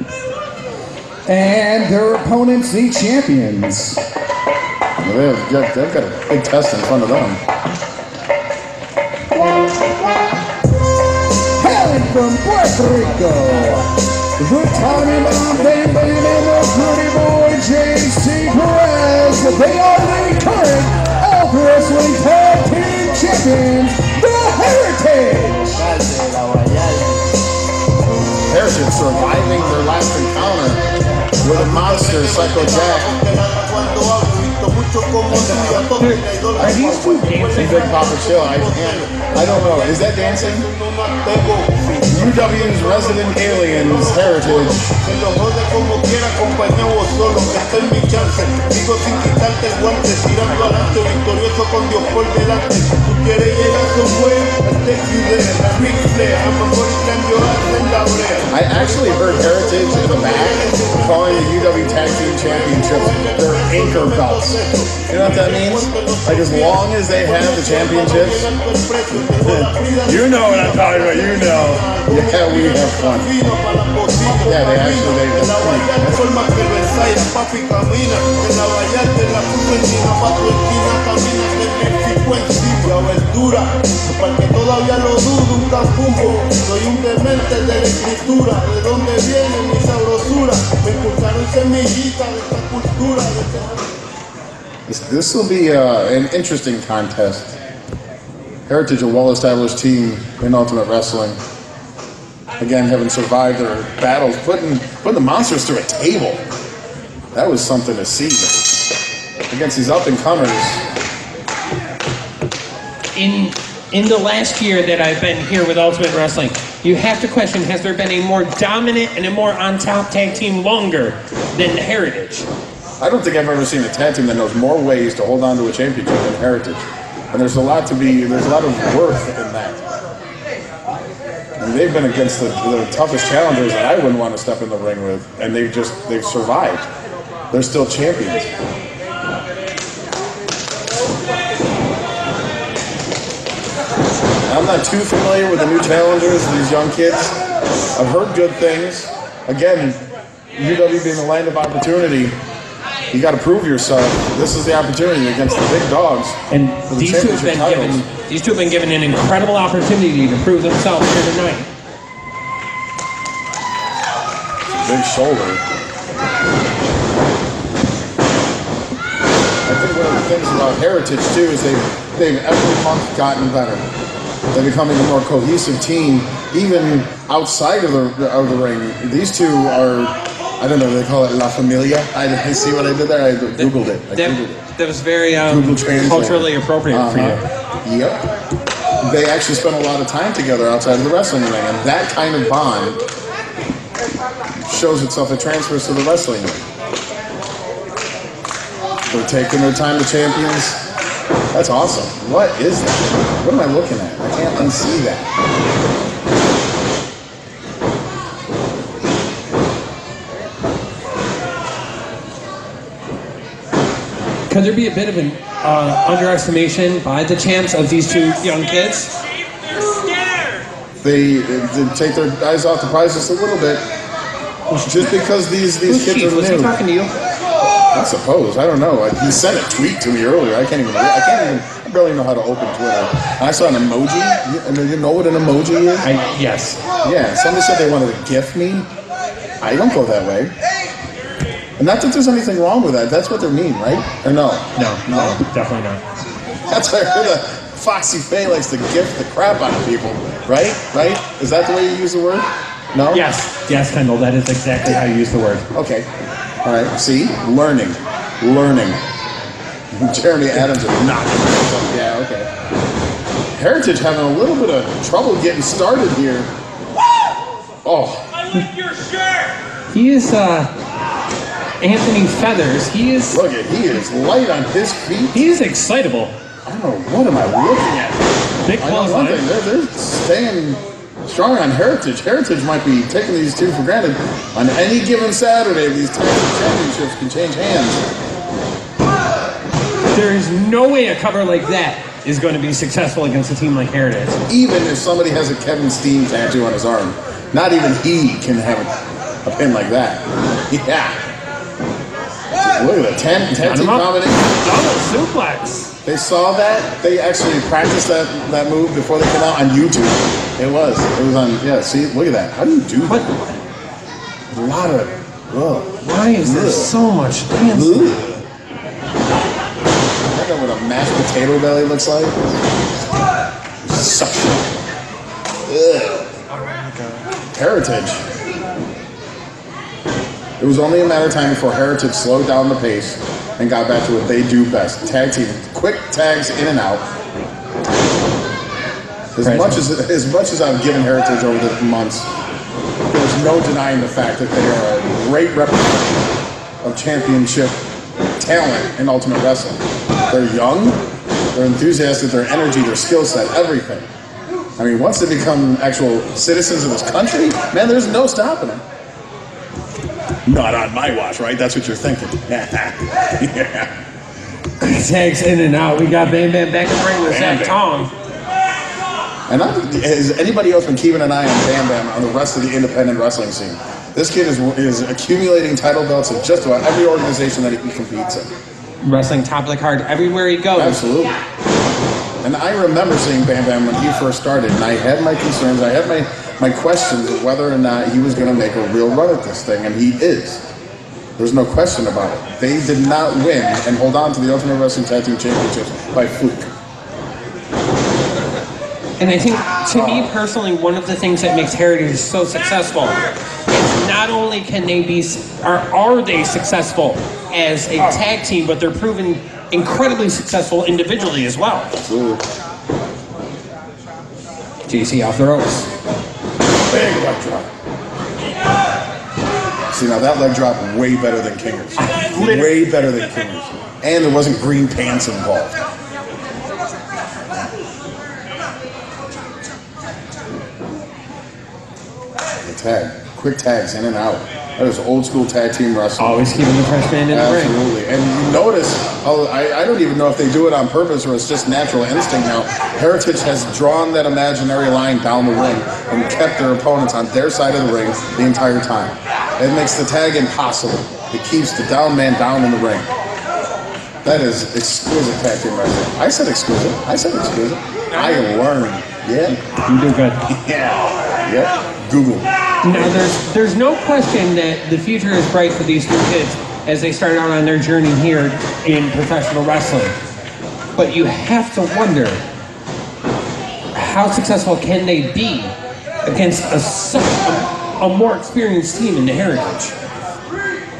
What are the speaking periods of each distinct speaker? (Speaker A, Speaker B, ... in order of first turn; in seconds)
Speaker A: 1.3-4.0, 11.6-26.0
Speaker B: 5.0-7.4, 28.5-30.8, 31.4-33.1, 37.5-40.7, 42.1-44.9, 58.5-68.5, 69.4-73.3, 74.2-76.3, 94.9-97.6, 98.7-101.4, 102.6-106.4, 107.3-108.7, 109.5-110.8, 123.0-129.8, 131.6-136.9, 137.5-138.5, 144.5-147.4, 147.9-150.0, 150.6-152.4, 153.1-158.0, 164.7-165.6, 169.6-173.9, 174.5-184.6, 185.4-188.2, 189.0-193.0, 194.6-196.6, 199.1-200.8, 201.5-205.3, 221.0-223.8, 224.8-226.7, 227.9-236.1, 237.0-238.9, 239.6-240.5, 241.8-245.4, 246.7-253.2, 255.7-256.1, 256.6-259.0, 259.9-262.5, 263.5-266.5, 267.8-268.2, 273.3-275.4, 276.6-288.0, 294.5-298.9, 299.4-301.2, 302.6-304.5, 306.0-313.3, 314.5-316.9, 317.6-318.4, 320.3-322.6, 325.6-326.2, 327.5-328.2, 330.6-337.1, 339.3-342.3, 343.1-346.3, 346.8-347.8, 348.4-351.0, 351.5-354.1, 354.8-358.8, 360.5-363.9, 367.3-367.8, 369.5-378.5, 380.8-381.4, 382.4-390.6, 391.4-396.7, 399.9-400.3, 408.0-408.2, 411.9-412.4, 416.9-417.7, 419.9-425.8, 432.6-436.5, 437.3-453.1, 454.2-459.6, 460.5-463.2
Speaker C: 31.5-93.8
Speaker D: 35.3-37.9, 113.1-122.5, 156.5-161.7, 183.6-187.4, 214.5-219.1, 224.7-225.2, 225.9-227.1, 236.0-236.8, 244.8-246.0, 253.1-255.7, 269.9-270.7, 271.8-273.4, 275.3-276.3, 278.6-279.4, 290.1-294.4, 303.6-305.9, 316.0-318.1, 323.9-324.6, 339.4-339.8, 364.8-368.1, 379.0-381.0, 399.2-403.2, 403.7-411.9, 414.9-415.9, 422.0-422.7, 436.2-437.8, 458.1-458.4, 459.9-460.4, 462.8-470.1, 470.9-472.4, 473.9-479.9